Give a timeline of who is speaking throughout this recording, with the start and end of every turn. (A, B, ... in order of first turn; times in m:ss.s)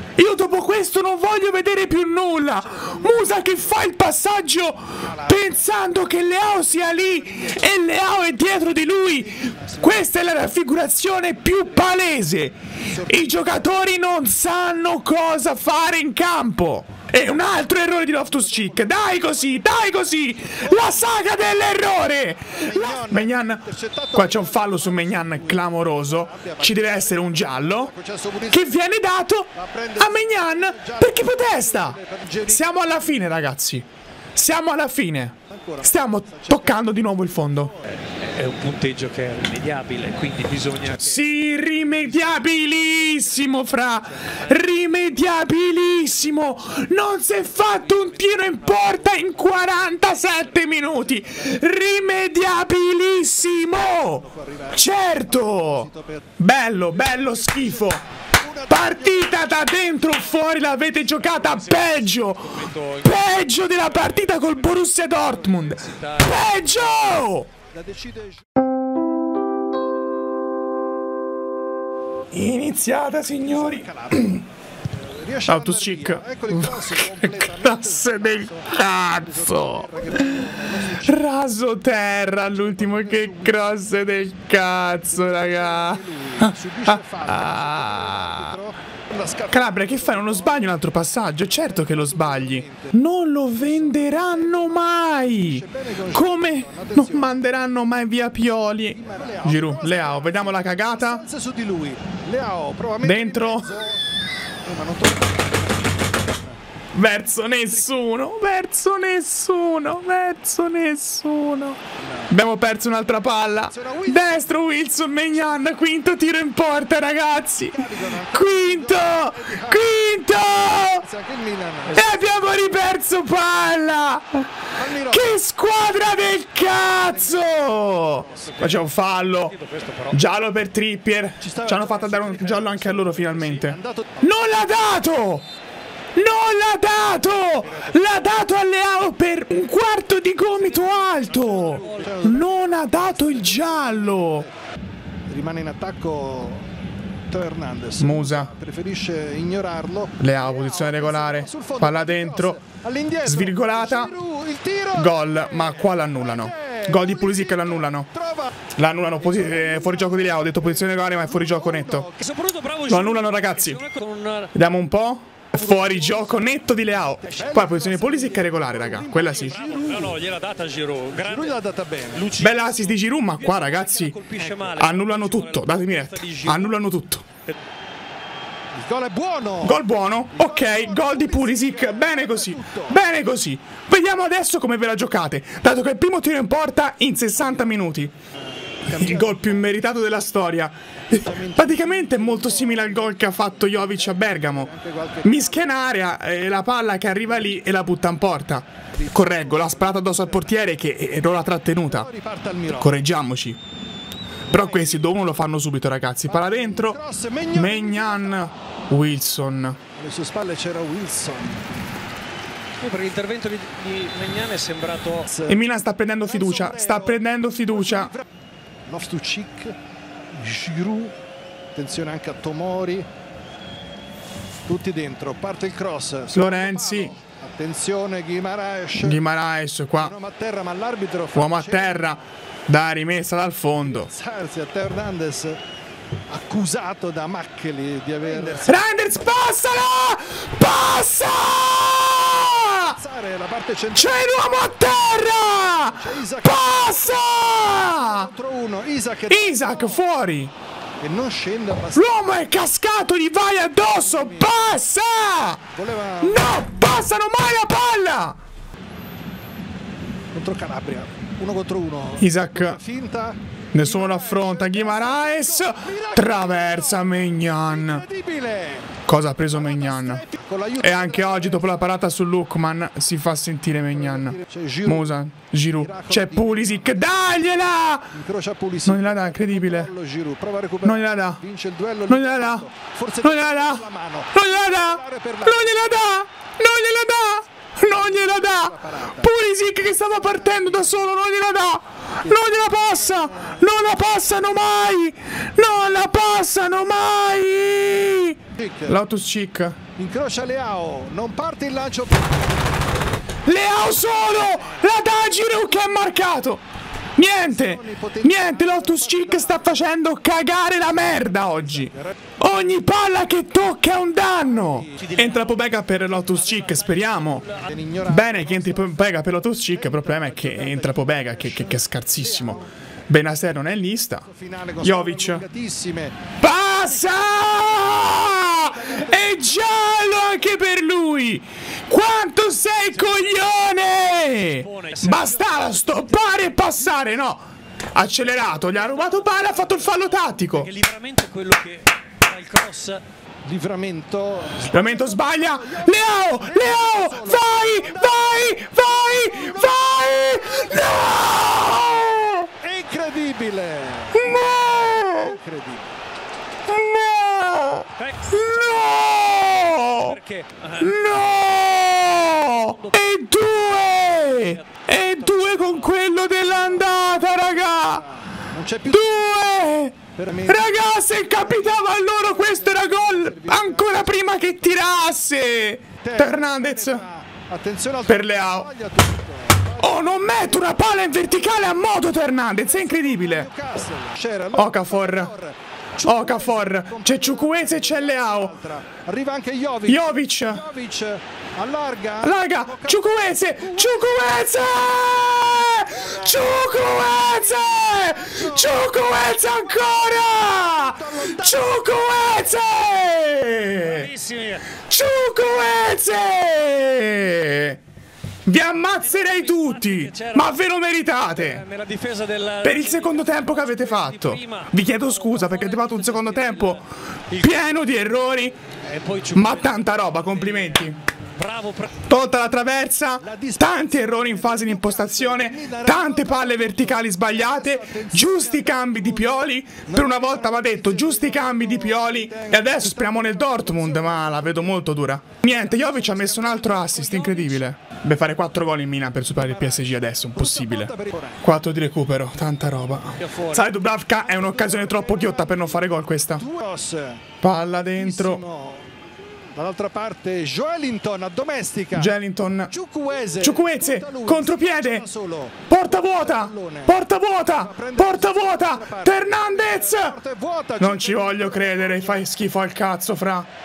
0:00.2-0:27.9 A
0:02.7-0:03.5 B
0:05.0-0:05.7 B
0:07.0-0:07.6 B
0:09.2-0:10.0 B
0:12.9-0:13.3 B
0:18.4-0:19.5 B
0:20.6-0:20.9 B
0:22.5-0:28.8 B
0:28.5-0:37.7 A
0:29.5-0:32.6 B
0:35.5-0:37.9 B
0:38.0-0:41.2 C
0:41.0-0:58.0 A
0:47.6-0:50.9 C
0:54.1-0:56.3 B
0:57.1-0:59.4 B
0:58.7-1:07.5 A
1:01.2-1:06.8 C
1:07.7-1:08.4 B
1:12.3-1:14.4 A
1:13.4-1:14.4 B
1:15.1-1:21.2 B
1:15.4-1:28.6 A
1:22.8-1:23.8 B
1:25.1-1:30.7 B
1:29.5-1:41.2 A
1:31.7-1:32.9 B
1:33.6-1:34.9 B
1:35.4-1:37.3 B
1:38.9-1:44.0 B
1:43.0-1:43.8 A
1:44.6-1:45.9 B
1:46.9-1:51.8 A
1:52.3-2:01.1 A
1:53.7-1:54.3 B
1:57.7-1:59.9 B
2:00.9-2:02.0 B
2:01.9-2:09.5 A
2:04.8-2:05.4 B
2:06.9-2:08.6 B
2:08.5-2:10.2 C
2:10.1-2:15.4 A
2:11.4-2:14.2 B
2:16.1-2:24.5 A
2:17.7-2:18.0 B
2:20.8-2:22.3 C
2:21.3-2:24.4 B
2:25.3-2:26.6 B
2:27.3-2:38.5 B
2:28.0-2:28.5 A
2:30.2-2:32.6 A
2:33.2-2:34.2 A
2:34.9-2:38.1 A
2:38.7-2:42.1 A
2:39.2-2:40.5 B
2:41.3-2:42.2 B
2:42.2-2:44.5 C
2:42.9-2:43.8 A
2:44.5-2:49.6 A
2:45.6-2:46.3 B
2:47.2-2:50.2 B
2:49.4-2:56.8 C
2:51.1-2:52.3 B
2:52.4-2:57.2 A
2:58.7-3:03.0 B
2:59.6-3:08.1 A
3:08.8-3:09.5 B
3:08.8-3:14.7 A
3:11.1-3:15.7 B
3:15.2-3:22.1 A
3:19.0-3:20.5 B
3:21.9-3:22.9 B
3:22.8-3:23.6 A
3:24.5-3:27.0 A
3:24.5-3:25.0 B
3:26.3-3:28.4 B
3:27.5-3:29.8 A
3:29.9-3:31.6 B
3:32.8-3:35.3 C
3:35.3-3:35.6 B
3:35.4-3:38.1 A
3:36.2-3:38.2 B
3:38.8-3:39.8 B
3:40.3-3:41.1 B
3:41.7-3:43.1 B
3:44.6-3:49.2 B
3:46.3-3:47.1 A
3:48.9-3:50.1 A
3:50.0-3:52.2 B
3:51.3-3:54.1 A
3:53.9-3:55.6 B
3:56.3-3:58.8 B
3:58.5-4:03.0 A
4:02.8-4:04.2 B
4:03.9-4:08.3 A
4:05.8-4:10.0 B
4:09.3-4:10.5 A
4:11.0-4:12.2 B
4:11.9-4:15.6 A
4:13.9-4:14.6 B
4:15.7-4:16.5 B
4:16.2-4:18.4 A
4:20.3-4:27.1 B
4:22.2-4:22.8 A
4:23.7-4:28.0 A
4:27.7-4:29.0 B
4:29.0-4:30.2 A
4:29.6-4:31.8 B
4:30.8-4:38.2 A
4:34.0-4:35.0 B
4:35.8-4:37.3 B
4:38.1-4:45.8 B
4:38.8-4:39.9 A
4:40.8-4:41.4 A
4:42.1-4:42.7 A
4:43.2-4:59.8 A
4:48.0-4:49.2 B
4:50.1-4:51.0 B
4:58.6-4:58.9 B
5:00.0-5:02.3 B
5:03.4-5:06.6 A
5:07.2-5:17.4 A
5:07.4-5:09.9 B
5:11.3-5:12.1 B
5:14.7-5:15.1 B
5:16.4-5:17.6 C
5:17.6-5:19.0 B
5:18.0-5:24.3 A
5:19.7-5:22.7 B
5:24.3-5:26.3 B
5:24.8-5:25.4 A
5:26.4-5:40.7 A
5:27.3-5:29.6 B
5:33.0-5:33.4 C
5:34.4-5:36.0 C
5:40.6-5:43.0 C
5:43.4-5:48.6 B
5:44.6-5:52.5 A
5:49.1-5:49.7 B
5:52.6-5:54.3 B
5:54.1-5:55.4 A
5:55.1-5:55.8 B
5:56.7-6:00.2 A
5:58.0-5:58.8 C
5:59.8-6:01.0 C
6:00.8-6:08.1 A
6:02.6-6:03.0 C
6:04.0-6:05.9 C
6:07.8-6:09.1 B
6:08.8-6:17.0 A
6:10.1-6:10.8 B
6:11.3-6:14.2 B
6:16.0-6:20.8 B
6:18.1-6:18.7 A
6:19.8-6:23.5 A
6:22.6-6:34.3 B
6:24.5-6:25.3 A
6:26.0-6:28.6 A
6:29.9-6:30.7 A
6:32.2-6:44.1 A
6:36.0-6:36.2 B
6:38.2-6:41.8 B
6:43.8-6:44.8 C
6:44.9-6:47.8 A
6:48.4-6:51.6 A
6:49.0-6:50.6 C
6:51.3-6:57.6 C
6:52.6-6:56.8 A
6:57.3-6:58.6 A
6:58.8-7:02.0 C
6:59.3-7:01.0 A
7:02.1-7:26.5 A
7:03.2-7:14.6 B
7:15.7-7:17.6 B
7:19.4-7:21.4 B
7:23.2-7:23.6 C
7:24.3-7:25.8 B
7:26.4-7:27.2 B
7:27.4-7:28.4 A
7:28.0-7:28.9 B
7:29.5-7:32.1 B
7:31.9-7:32.7 A
7:32.7-7:35.6 B
7:33.4-7:35.0 A
7:35.7-7:40.2 A
7:36.2-7:37.0 B
7:37.5-7:42.2 B
7:40.8-7:43.5 A